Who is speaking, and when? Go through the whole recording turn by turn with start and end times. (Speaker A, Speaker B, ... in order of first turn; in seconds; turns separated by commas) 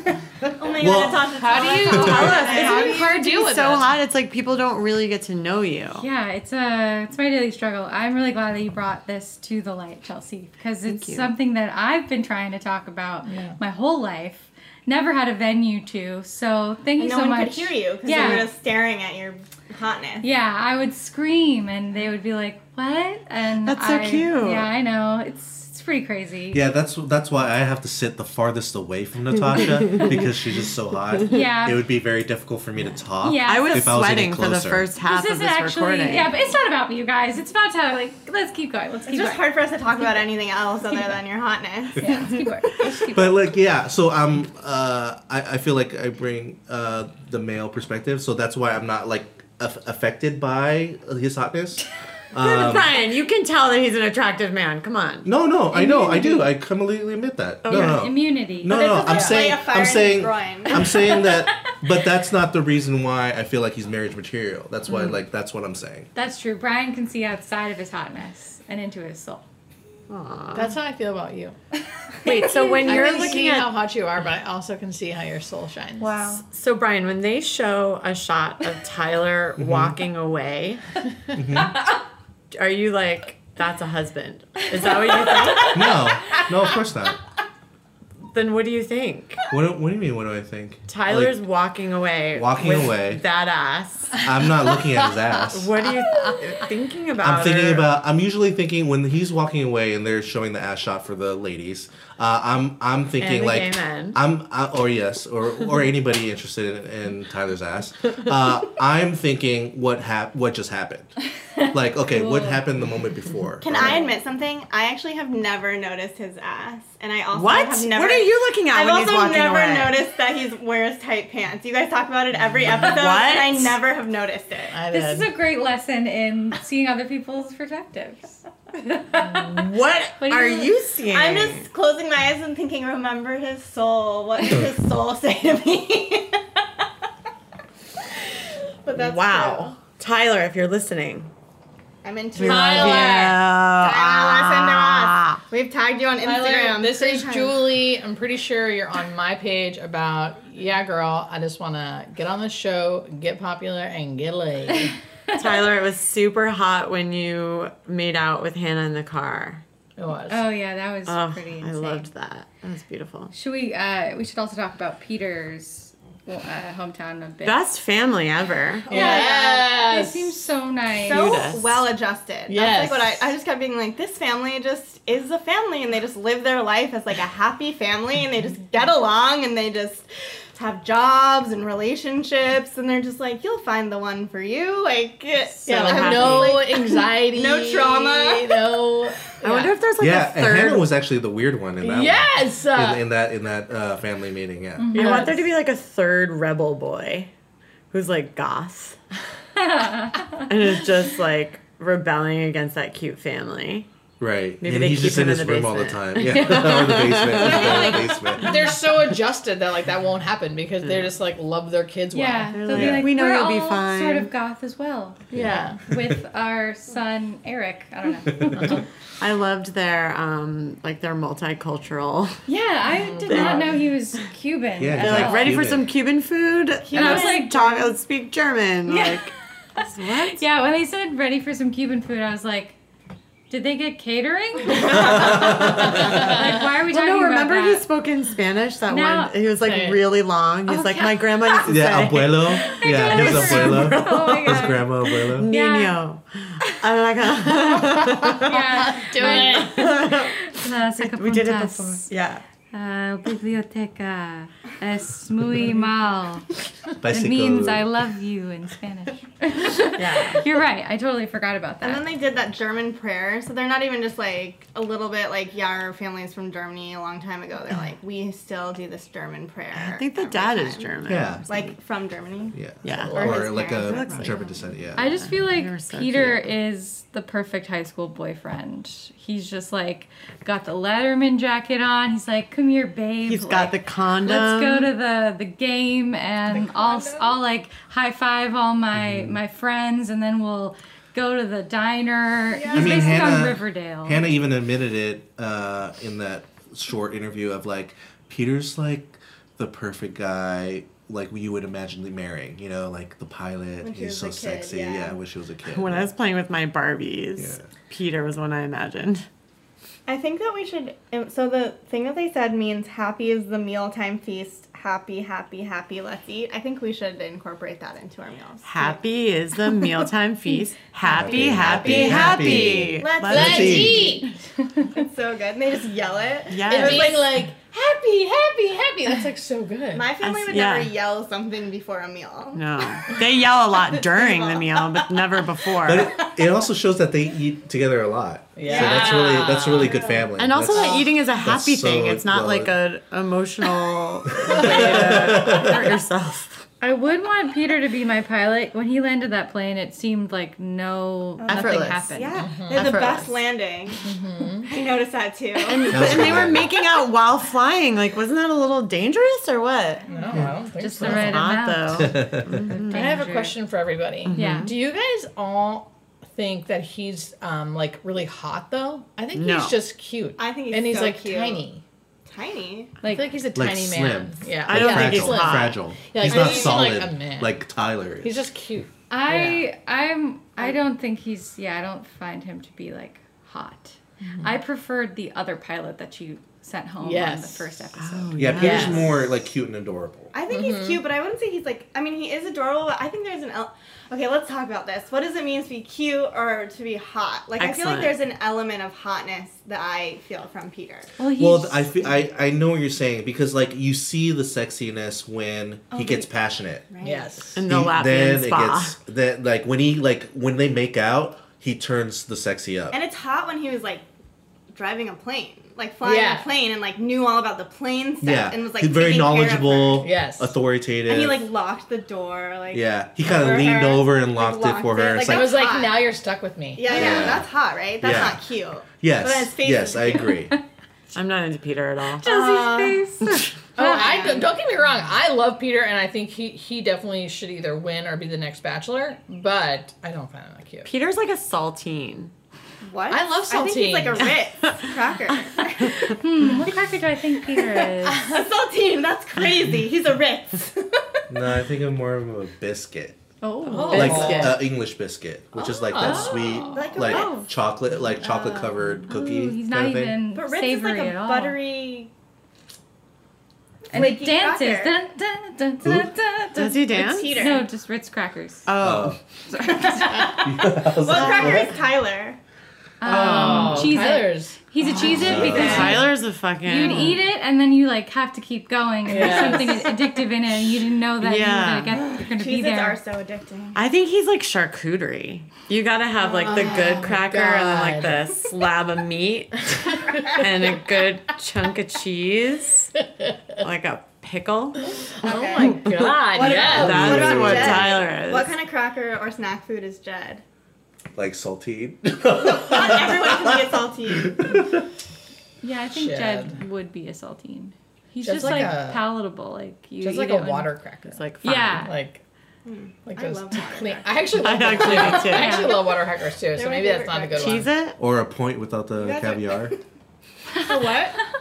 Speaker A: 0.6-2.9, Speaker B: 0.8-1.3, Speaker C: 1.3-3.7, Speaker D: 1.4-3.8, Speaker B: 1.9-2.3, Speaker E: 2.2-6.0, Speaker C: 6.0-18.5, Speaker E: 10.8-11.3, Speaker D: 13.2-13.6, Speaker A: 17.0-20.2, Speaker C: 20.2-26.6, Speaker E: 23.6-24.7, Speaker B: 26.5-34.9, Speaker C: 31.3-31.9, Speaker C: 33.2-34.0, Speaker E: 33.5-36.4, Speaker C: 35.0-40.0, Speaker A: 39.1-42.4, Speaker C: 42.0-43.5, Speaker B: 43.1-52.9, Speaker E: 52.4-55.3, Speaker B: 55.2-66.1, Speaker C: 55.8-56.4, Speaker E: 57.6-58.0, Speaker C: 57.7-59.4, Speaker A: 58.9-60.9, Speaker C: 61.0-61.7, Speaker E: 64.9-65.2, Speaker C: 66.1-69.4, Speaker E: 70.1-70.8, Speaker D: 70.5-71.5, Speaker E: 72.2-73.8, Speaker D: 72.3-76.1, Speaker C: 72.3-73.5, Speaker C: 76.0-76.4, Speaker E: 76.2-80.8, Speaker B: 79.6-79.9, Speaker B: 81.4-81.7, Speaker E: 82.5-85.8, Speaker B: 85.7-87.2, Speaker E: 88.3-89.4, Speaker B: 89.5-91.3, Speaker E: 90.9-94.2, Speaker B: 92.3-93.2, Speaker B: 94.2-95.8, Speaker E: 95.5-97.9, Speaker B: 97.2-111.1, Speaker E: 103.2-104.2, Speaker B: 111.7-114.0, Speaker C: 112.0-112.6, Speaker A: 113.6-124.8, Speaker E: 117.3-120.0, Speaker E: 122.7-123.8, Speaker D: 124.7-125.3, Speaker C: 124.9-129.6, Speaker E: 129.3-131.7, Speaker C: 130.2-130.7, Speaker A: 131.1-136.6, Speaker A: 138.8-139.8, Speaker E: 138.9-141.3, Speaker A: 142.0-143.2, Speaker E: 142.4-145.4, Speaker D: 142.4-143.4, Speaker A: 143.8-147.7, Speaker D: 146.2-154.9, Speaker C: 154.8-155.4, Speaker E: 155.4-159.6, Speaker D: 160.0-160.4, Speaker C: 160.2-162.1, Speaker E: 161.1-163.3, Speaker C: 163.3-167.6, Speaker E: 167.4-169.2, Speaker D: 168.9-170.4, Speaker A: 168.9-169.8, Speaker C: 168.9-171.6, Speaker A: 171.0-188.9, Speaker E: 171.1-171.8, Speaker D: 172.5-173.2, Speaker C: 185.5-186.1, Speaker D: 185.6-189.7, Speaker E: 185.7-186.7, Speaker E: 189.4-190.9, Speaker B: 190.0-195.0, Speaker D: 191.8-193.0, Speaker C: 194.8-195.4, Speaker E: 194.9-197.3, Speaker D: 195.0-195.4, Speaker E: 197.9-199.0, Speaker C: 199.6-200.2, Speaker E: 200.5-203.9, Speaker B: 204.2-208.6, Speaker E: 204.6-208.2, Speaker C: 207.3-208.4, Speaker D: 208.4-212.6, Speaker C: 212.1-218.9, Speaker E: 212.5-214.3, Speaker B: 212.7-213.1, Speaker B: 215.3-215.6, Speaker D: 215.3-215.8, Speaker B: 218.3-218.7, Speaker E: 219.2-222.4, Speaker C: 222.5-225.6, Speaker D: 222.9-223.8, Speaker E: 223.2-223.8, Speaker B: 224.8-225.9, Speaker E: 225.0-229.3, Speaker A: 226.9-227.6, Speaker C: 226.9-227.9, Speaker C: 228.9-232.8, Speaker E: 229.8-230.4, Speaker C: 233.5-237.9, Speaker B: 234.9-236.2, Speaker E: 236.2-250.3, Speaker C: 238.9-239.4, Speaker D: 239.6-240.0, Speaker C: 240.7-241.7, Speaker B: 241.6-245.5, Speaker C: 242.5-246.0, Speaker D: 248.2-249.8, Speaker C: 248.4-252.1, Speaker E: 250.9-252.4, Speaker C: 252.7-256.5, Speaker B: 257.0-257.9, Speaker C: 257.0-262.1, Speaker E: 260.0-260.4, Speaker A: 261.8-274.6, Speaker E: 269.7-271.7, Speaker B: 271.1-271.5, Speaker B: 272.5-275.2, Speaker E: 272.8-276.5, Speaker D: 272.9-273.5, Speaker C: 274.9-294.3, Speaker E: 283.2-284.9, Speaker A: 286.5-287.4, Speaker B: 288.9-289.4, Speaker A: 292.5-293.4, Speaker B: 292.7-306.1, Speaker A: 303.8-305.2, Speaker E: 305.6-309.2, Speaker B: 307.4-307.6, Speaker A: 310.1-319.0, Speaker E: 318.6-324.1, Speaker B: 321.1-324.2, Speaker A: 321.2-324.0, Speaker D: 323.3-324.3, Speaker A: 324.9-327.4, Speaker E: 326.5-327.2, Speaker D: 326.6-330.1, Speaker A: 329.9-332.6, Speaker E: 330.2-330.9, Speaker E: 332.5-336.1, Speaker A: 334.1-335.1, Speaker B: 335.8-342.7, Speaker D: 338.6-340.0, Speaker A: 338.6-340.3, Speaker E: 340.4-346.7, Speaker B: 344.3-345.9, Speaker C: 346.8-352.5, Speaker A: 351.4-354.0, Speaker E: 351.5-352.2, Speaker D: 352.4-352.9, Speaker E: 352.7-353.4, Speaker D: 354.0-354.7, Speaker A: 354.7-356.5, Speaker C: 355.6-356.1, Speaker E: 355.7-363.3, Speaker B: 355.9-356.7, Speaker D: 360.1-361.5, Speaker C: 360.1-363.6, Speaker B: 362.0-362.6, Speaker D: 362.9-371.8, Speaker E: 364.3-364.7, Speaker C: 364.3-364.8, Speaker E: 369.3-369.8, Speaker A: 370.4-371.6, Speaker A: 372.2-372.9, Speaker C: 373.0-373.4, Speaker D: 373.0-377.5, Speaker B: 373.5-378.3, Speaker E: 374.6-375.8, Speaker A: 376.2-376.9, Speaker D: 378.2-379.6, Speaker C: 379.1-389.1, Speaker D: 384.2-384.6, Speaker D: 387.0-387.7, Speaker E: 387.9-389.1, Speaker B: 388.4-390.3, Speaker D: 388.6-389.1, Speaker A: 390.3-401.1, Speaker D: 390.5-391.0, Speaker E: 397.6-398.2, Speaker C: 401.2-402.2, Speaker B: 401.3-406.9, Speaker A: 405.9-406.3, Speaker A: 406.9-407.4, Speaker D: 407.0-407.6, Speaker E: 407.6-408.9, Speaker B: 407.6-412.9, Speaker A: 412.9-414.1, Speaker A: 414.7-420.1, Speaker D: 416.0-416.5, Speaker B: 418.2-421.5, Speaker D: 420.0-420.5, Speaker A: 421.1-426.1, Speaker B: 422.7-425.5, Speaker D: 425.2-427.2, Speaker A: 426.8-430.4, Speaker B: 426.9-427.5, Speaker B: 428.0-430.5, Speaker E: 431.1-432.3, Speaker C: 432.2-434.4, Speaker D: 432.3-432.6, Speaker D: 433.8-440.9, Speaker A: 433.9-434.5, Speaker E: 440.8-442.3, Speaker A: 442.8-446.0, Speaker D: 443.1-444.4, Speaker C: 446.0-448.4, Speaker A: 448.0-451.2, Speaker B: 451.3-453.2, Speaker C: 453.4-454.5, Speaker D: 453.6-454.6, Speaker E: 453.7-454.5, Speaker B: 453.9-460.3, Speaker D: 455.9-456.3, Speaker C: 455.9-457.5, Speaker A: 455.9-457.5, Speaker C: 458.2-461.6, Speaker A: 460.3-462.1, Speaker C: 463.9-468.7, Speaker A: 463.9-464.9, Speaker B: 465.8-466.1, Speaker E: 466.5-467.5, Speaker A: 467.0-467.7, Speaker E: 468.7-469.2, Speaker B: 468.8-469.2, Speaker C: 469.5-470.4, Speaker B: 470.4-471.8, Speaker A: 470.8-472.4, Speaker C: 473.0-483.0, Speaker D: 473.0-475.2, Speaker E: 473.1-474.1, Speaker E: 474.8-477.2, Speaker B: 475.0-476.0, Speaker A: 475.5-476.0, Speaker D: 479.1-479.9, Speaker A: 479.3-479.5, Speaker E: 481.2-482.0, Speaker A: 482.1-483.8, Speaker E: 483.7-489.7, Speaker D: 486.2-488.2, Speaker E: 490.3-492.9, Speaker E: 493.6-494.8, Speaker D: 495.2-497.1, Speaker A: 495.2-500.4, Speaker E: 495.6-498.6, Speaker B: 496.5-498.0, Speaker B: 501.1-504.9, Speaker A: 502.4-504.5, Speaker C: 505.6-510.8, Speaker D: 505.9-506.6, Speaker D: 508.2-509.1, Speaker D: 510.0-512.2, Speaker E: 511.1-511.9, Speaker C: 511.4-512.0, Speaker A: 512.6-515.2, Speaker D: 513.0-517.7, Speaker E: 514.4-515.7, Speaker C: 515.2-515.9, Speaker A: 516.5-517.6, Speaker E: 517.3-518.0, Speaker B: 518.0-519.7, Speaker A: 518.9-519.8, Speaker C: 520.6-521.2, Speaker A: 520.6-521.2